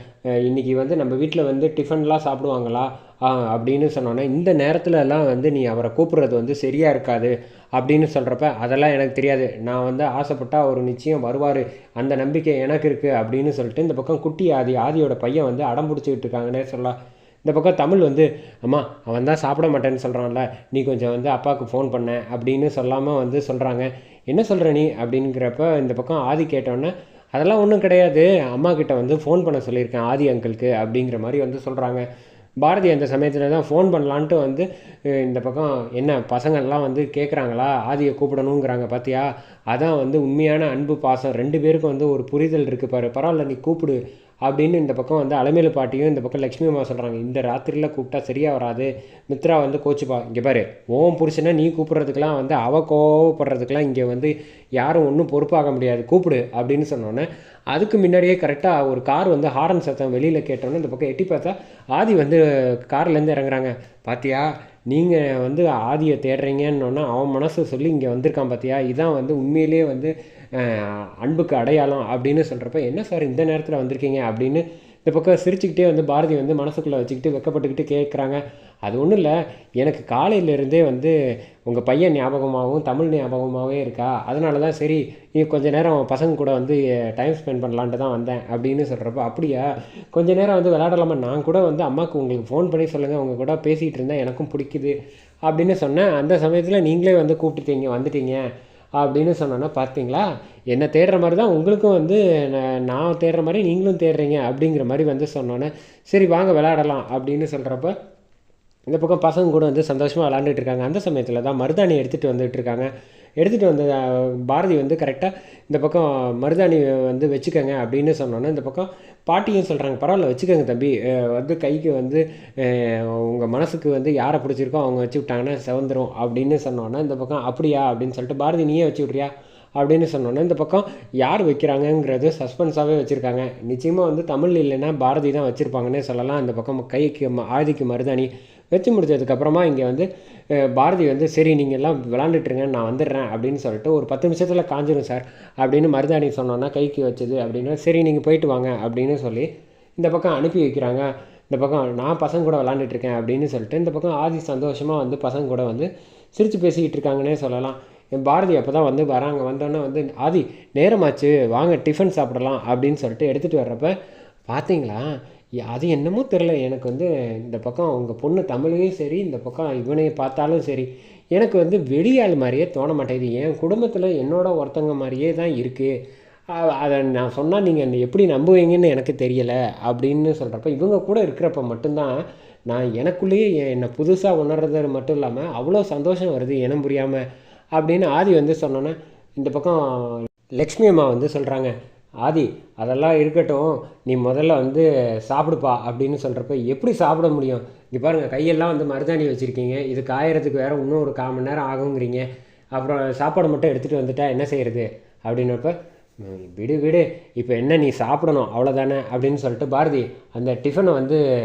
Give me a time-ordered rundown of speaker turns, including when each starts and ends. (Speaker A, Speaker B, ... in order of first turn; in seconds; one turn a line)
Speaker A: 0.4-32.0
Speaker A: 32.6-81.1
Speaker A: 81.7-94.9
Speaker A: 95.5-98.4
Speaker A: 99.0-107.9
Speaker A: 108.9-163.9
Speaker A: 164.5-165.1
Speaker A: 165.6-175.9
Speaker A: 176.5-182.2
Speaker A: 182.7-187.2
Speaker A: 187.8-191.7
Speaker A: 192.2-211.2